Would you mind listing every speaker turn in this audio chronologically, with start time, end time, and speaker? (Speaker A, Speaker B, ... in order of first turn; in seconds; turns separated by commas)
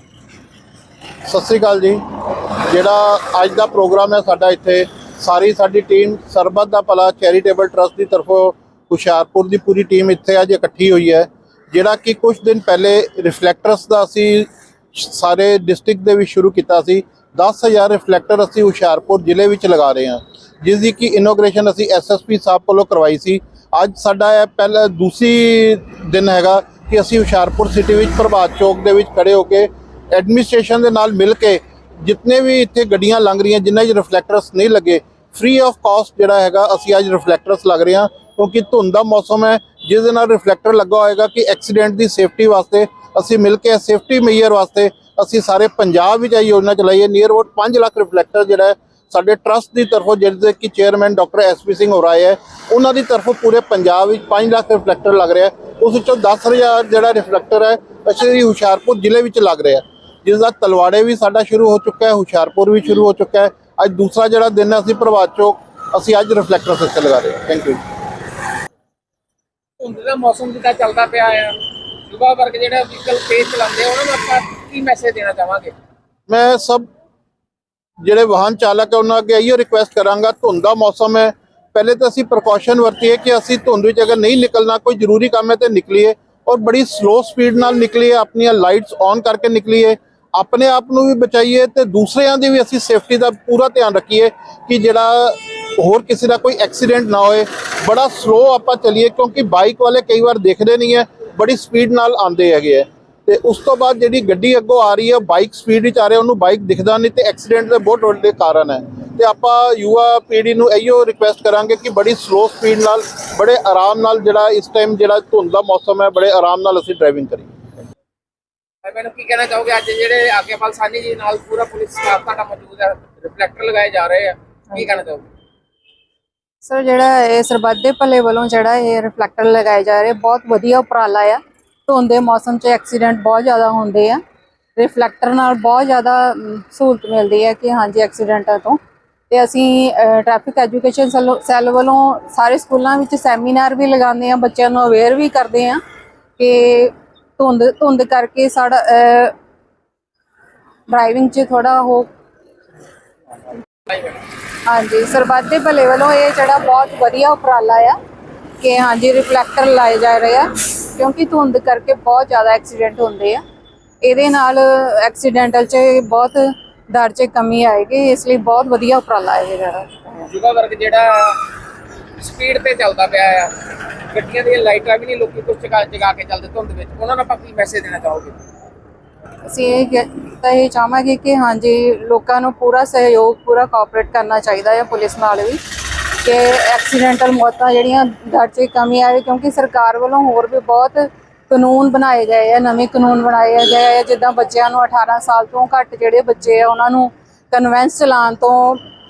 Speaker A: 1.3-2.0, Speaker A: 2.7-67.8, Speaker B: 69.8-71.6, Speaker B: 72.1-75.7, Speaker A: 76.3-76.9, Speaker A: 78.0-117.5, Speaker B: 118.8-125.2, Speaker C: 126.6-134.2, Speaker C: 134.8-138.8, Speaker C: 139.3-145.8, Speaker C: 146.4-149.3, Speaker C: 150.9-152.1, Speaker B: 153.9-154.2, Speaker C: 154.7-158.0, Speaker C: 158.6-163.4, Speaker C: 164.0-170.2, Speaker B: 170.2-171.4, Speaker B: 172.2-173.5, Speaker B: 174.1-178.3, Speaker C: 179.5-198.8